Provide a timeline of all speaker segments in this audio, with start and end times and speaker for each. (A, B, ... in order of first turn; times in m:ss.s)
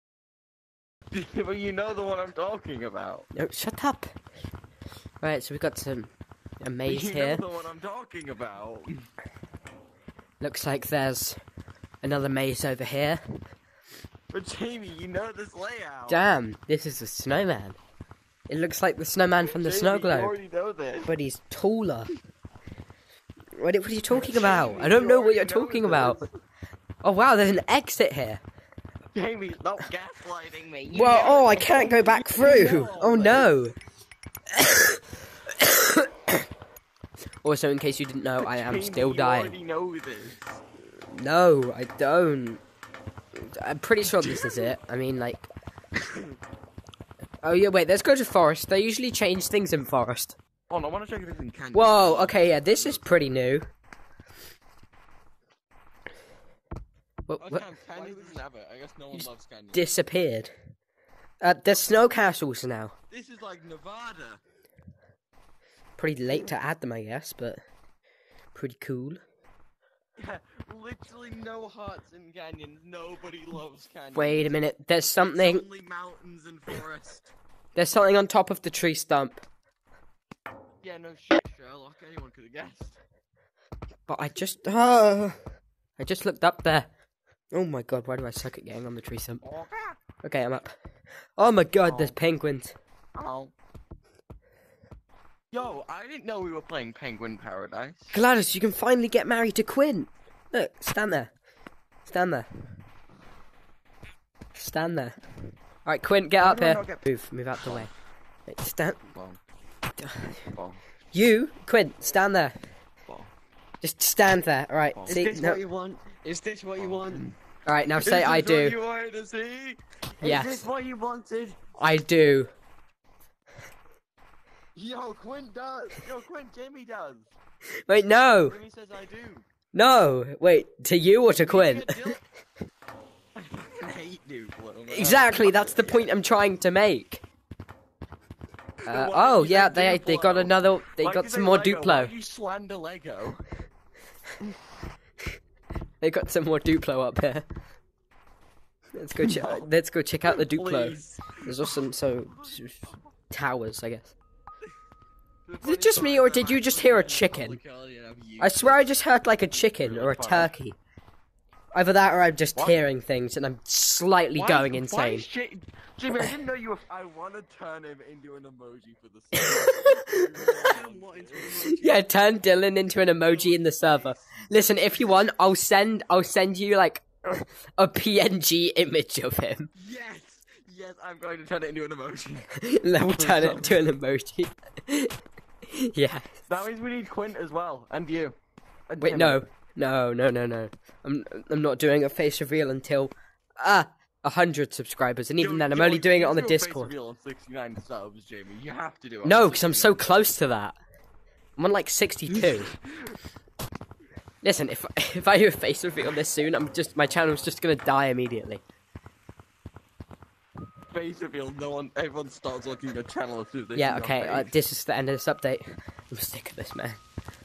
0:01.1-0:03.3 A
0:03.3-0:04.1 B
0:05.2-0:07.4 B
0:06.8-0:09.1 A
0:10.4-0:11.4 B
0:12.0-0:13.4 B
0:14.3-0:16.2 A
0:16.1-0:17.8 B
0:18.5-0:20.4 B
0:19.4-0:21.1 A
0:21.1-0:22.1 B
0:23.6-0:26.2 B
0:24.1-0:26.3 A
0:27.0-0:28.4 B
0:29.1-0:33.5 A
0:30.9-0:33.8 B
0:34.5-0:36.4 B
0:37.4-0:39.6 B
0:38.4-0:40.6 A
0:41.1-0:42.6 B
0:43.4-0:45.5 B
0:44.1-0:44.6 A
0:47.4-0:50.4 B
0:50.7-0:53.4 A
0:51.7-0:53.7 B
0:57.3-0:58.4 B
0:57.4-0:59.9 A
0:59.2-1:00.5 B
1:01.4-1:02.9 B
1:03.1-1:04.4 A
1:06.0-1:07.6 B
1:08.5-1:09.2 B
1:10.2-1:14.6 A
1:14.2-1:15.6 B
1:15.2-1:17.3 A
1:17.8-1:19.4 B
1:20.8-1:23.0 A
1:24.1-1:25.4 B
1:26.0-1:26.9 B
1:27.5-1:29.4 B
1:29.4-1:30.0 A
1:30.2-1:30.8 B
1:31.4-1:32.8 B
1:31.8-1:32.2 A
1:33.2-1:33.5 A
1:35.5-1:38.2 A
1:38.1-1:41.3 B
1:42.0-1:42.5 B
1:44.6-1:45.2 B
1:45.8-1:47.9 B
1:46.4-1:47.0 C
1:48.5-1:49.1 B
1:49.1-1:49.4 A
1:50.0-1:50.4 B
1:50.6-1:50.8 A
1:51.1-1:52.6 B
1:53.8-1:55.6 B
1:54.9-1:55.3 A
1:55.1-1:57.3 C
1:56.8-1:57.4 A
1:57.7-1:58.8 B
1:57.9-1:59.8 A
2:00.2-2:01.6 C
2:00.2-2:00.7 B
2:01.8-2:02.5 B
2:04.8-2:07.3 A
2:07.9-2:08.6 B
2:08.4-2:09.5 A
2:09.7-2:12.0 B
2:11.4-2:12.2 A
2:13.4-2:16.2 A
2:14.9-2:17.2 B
2:18.8-2:23.4 A
2:18.9-2:22.1 B
2:26.0-2:27.5 B
2:29.0-2:34.2 B
2:29.2-2:29.7 A
2:30.3-2:33.0 A
2:35.5-2:38.9 A
2:35.6-2:37.6 B
2:38.4-2:40.8 B
2:39.5-2:40.5 A
2:41.8-2:45.2 B
2:42.6-2:42.8 A
2:44.4-2:51.6 A
2:49.4-2:50.1 B
2:50.6-2:52.0 C
2:51.6-2:59.7 B
2:53.2-2:54.2 A
2:59.8-3:02.5 A
3:02.6-3:05.2 B
3:03.0-3:03.8 A
3:05.7-3:06.4 B
3:06.5-3:08.4 A
3:08.9-3:09.4 A
3:09.0-3:16.9 B
3:15.4-3:20.0 A
3:19.2-3:20.8 B
3:21.6-3:22.7 B
3:22.3-3:23.2 A
3:24.4-3:28.6 B
3:30.9-3:34.5 A
3:33.8-3:37.0 B